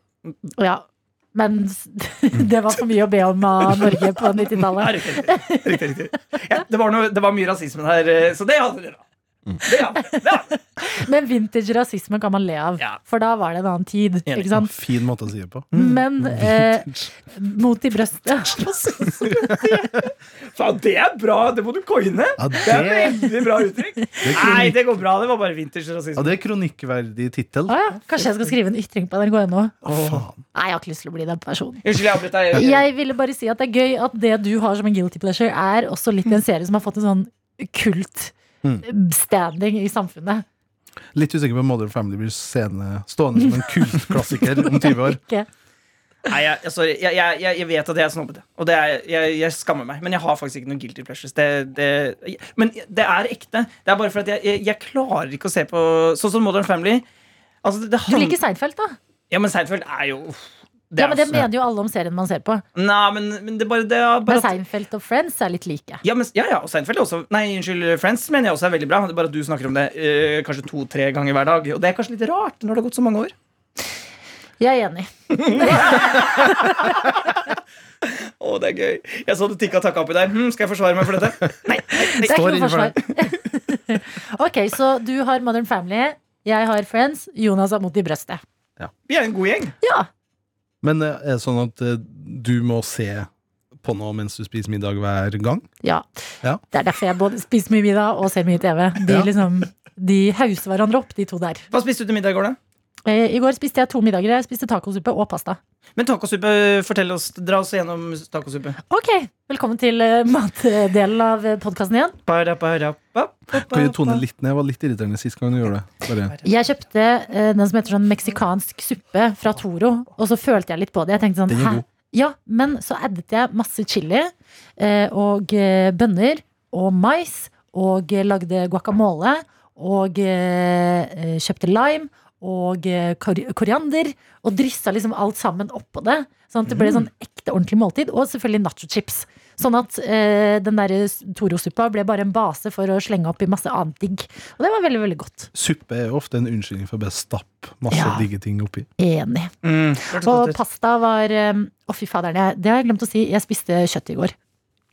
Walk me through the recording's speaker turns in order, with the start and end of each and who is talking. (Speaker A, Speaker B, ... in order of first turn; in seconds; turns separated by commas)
Speaker A: 0.6-5.9, Speaker B: 4.7-9.0, Speaker B: 9.6-10.5, Speaker A: 10.8-14.7, Speaker C: 14.5-17.1, Speaker A: 15.7-19.1, Speaker B: 18.7-26.3, Speaker C: 22.4-23.3, Speaker C: 24.2-24.8, Speaker C: 26.1-27.8, Speaker A: 27.7-29.8, Speaker C: 29.8-30.4, Speaker B: 29.9-30.2, Speaker A: 30.5-31.9, Speaker B: 31.8-32.8, Speaker A: 32.5-40.4, Speaker C: 41.1-45.2, Speaker A: 44.4-45.5, Speaker B: 46.3-57.0, Speaker B: 57.6-58.4, Speaker A: 58.1-59.0, Speaker B: 59.3-61.4, Speaker A: 61.0-62.6, Speaker B: 62.7-64.6, Speaker A: 64.3-66.0, Speaker B: 66.0-73.3, Speaker A: 74.6-76.0, Speaker B: 75.3-77.2, Speaker B: 78.0-82.3, Speaker A: 82.1-88.4, Speaker C: 82.2-83.0, Speaker B: 89.1-89.7, Speaker A: 89.8-90.1, Speaker C: 90.8-93.3, Speaker C: 93.8-95.7, Speaker A: 96.7-101.6, Speaker B: 101.7-102.6, Speaker A: 103.0-105.6, Speaker B: 106.0-108.8, Speaker A: 108.9-112.2, Speaker B: 112.3-114.2, Speaker C: 113.5-116.3, Speaker A: 116.4-145.5, Speaker C: 121.5-121.8, Speaker C: 145.5-148.9, Speaker A: 147.9-148.2, Speaker A: 149.0-149.5, Speaker B: 149.6-150.6, Speaker A: 150.1-154.3